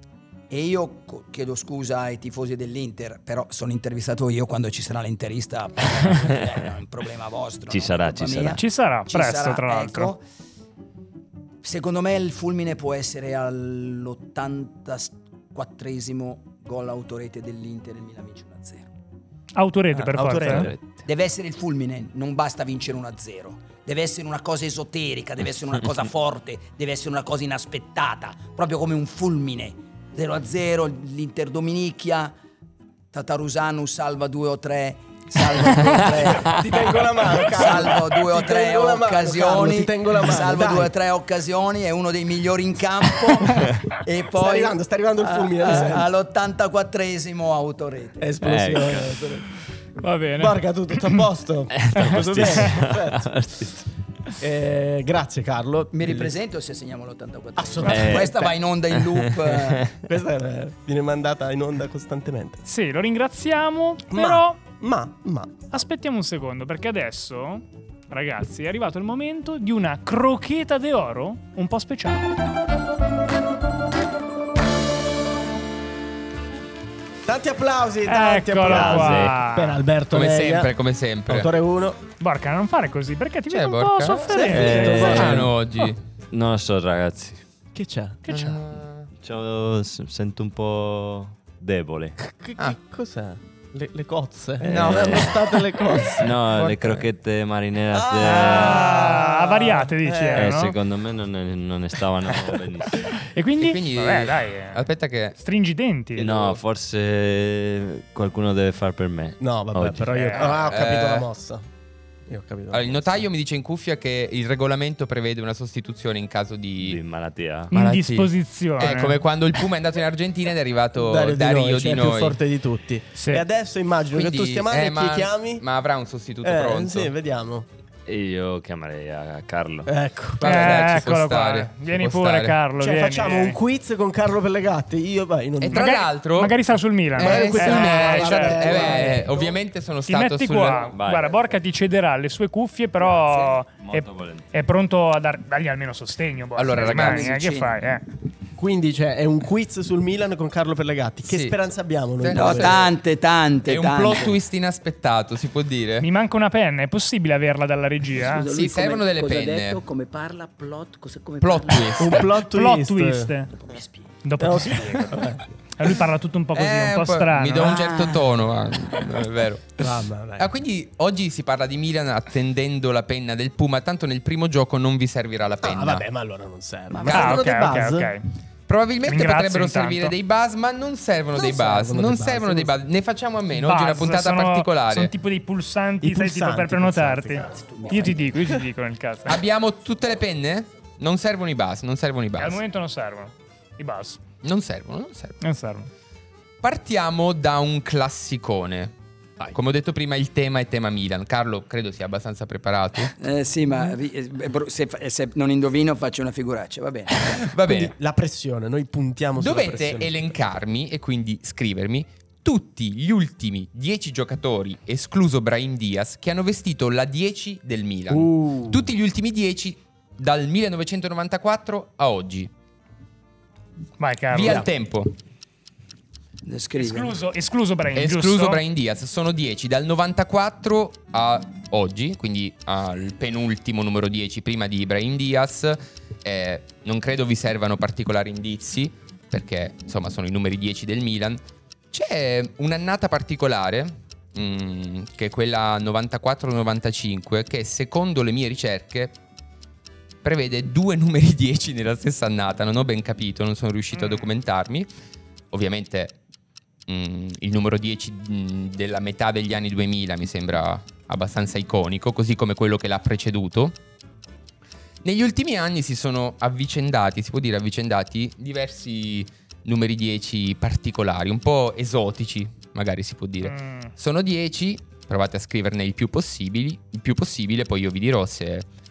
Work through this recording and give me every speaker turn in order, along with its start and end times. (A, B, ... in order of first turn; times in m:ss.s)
0:00.5-0:10.2 A
0:07.7-0:08.6 B
0:08.5-0:10.1 C
0:11.6-0:18.9 A
0:19.5-0:20.7 C
0:19.9-0:20.7 D
0:20.3-0:20.8 B
0:21.0-0:32.3 A
0:33.1-0:36.6 A
0:36.0-0:40.9 D
0:37.5-0:48.3 A
0:44.4-0:46.1 D
0:48.2-0:49.5 D
0:48.4-0:49.1 B
0:50.0-0:51.2 C
0:50.4-0:53.3 D
0:51.8-0:53.8 B
0:51.9-0:52.7 C
0:54.4-0:56.3 D
0:55.9-0:59.9 A
0:57.6-0:58.5 D
0:57.9-0:58.3 B
0:58.9-0:59.7 B
1:00.0-1:02.6 D
1:02.6-1:04.6 C
1:04.1-1:05.7 D
1:05.7-1:12.2 C
1:17.2-1:20.7 D
1:18.0-1:19.8 C
1:18.7-1:19.4 B
1:20.1-1:21.5 E
1:21.3-1:22.0 D
1:22.2-1:25.4 C
1:23.5-1:24.4 E
1:24.3-1:25.5 D
1:24.5-1:25.5 B
1:25.0-1:26.0 E
1:26.3-1:27.4 B
1:27.7-1:28.2 D
1:28.3-1:28.6 C
1:28.3-1:29.1 E
1:29.2-1:32.2 B
1:32.2-1:36.8 D
1:34.6-1:35.4 B
1:34.7-1:35.2 E
1:36.2-1:39.1 B
1:36.7-1:37.0 E
1:37.9-1:40.5 D
1:38.3-1:40.7 C
1:40.3-1:43.1 B
1:43.3-1:46.3 C
1:43.6-1:45.4 E
1:46.2-1:50.3 B
1:49.4-1:51.6 D
1:50.1-1:50.6 C
1:50.6-1:51.3 E
1:52.3-1:53.2 D
1:52.7-1:57.0 E
1:56.8-1:57.7 B
1:57.7-1:59.2 C
1:57.7-2:02.4 E
2:01.0-2:05.6 D
2:03.1-2:03.4 C
2:04.1-2:07.1 E
2:06.4-2:07.7 D
2:08.0-2:09.9 B
2:09.8-2:10.5 D
2:10.4-2:12.6 E
2:10.4-2:13.6 C
2:12.8-2:16.0 D
2:15.6-2:16.6 E
2:15.7-2:19.3 C
2:17.1-2:20.9 E
2:17.2-2:19.4 D
2:20.0-2:28.0 C
2:20.9-2:21.5 B
2:23.8-2:24.5 B
2:26.6-2:27.4 E
2:26.9-2:27.8 A
2:28.6-2:32.8 D
2:31.2-2:31.6 E
2:32.2-2:32.9 E
2:32.3-2:34.4 A
2:33.7-2:36.1 E
2:36.0-2:38.5 C
2:38.2-2:42.1 A
2:38.5-2:39.8 E
2:41.4-2:42.3 E
2:42.0-2:43.3 D
2:42.3-2:43.5 C
2:43.6-2:44.1 A
2:44.2-2:45.2 C
2:44.4-2:45.4 D
2:45.8-2:47.8 C
2:46.5-2:56.0 E
2:47.6-2:48.4 A
2:49.8-2:50.5 D
2:55.6-2:58.1 D
2:56.9-2:57.4 A
2:57.1-2:58.2 C
2:58.7-3:05.1 E
2:59.0-3:00.1 C
3:01.3-3:02.7 D
3:03.5-3:09.4 C
3:06.0-3:08.6 D
3:07.6-3:08.0 A
3:09.3-3:12.6 E
3:12.4-3:14.2 C
3:14.4-3:15.4 E
3:15.4-3:15.9 C
3:16.6-3:23.1 E
3:23.2-3:27.4 A
3:27.3-3:27.9 E
3:27.7-3:30.3 D
3:29.4-3:42.5 E
3:38.1-3:38.6 D
3:44.0-3:44.6 C
3:44.3-3:45.1 E
3:46.4-3:47.2 A
3:46.8-3:48.6 C
3:47.9-4:01.4 E
4:01.9-4:09.2 E
4:10.2-4:14.9 E
4:13.9-4:14.3 C
4:15.5-4:16.2 E
4:16.9-4:23.8 E
4:25.0-4:38.7 E
4:33.4-4:33.9 C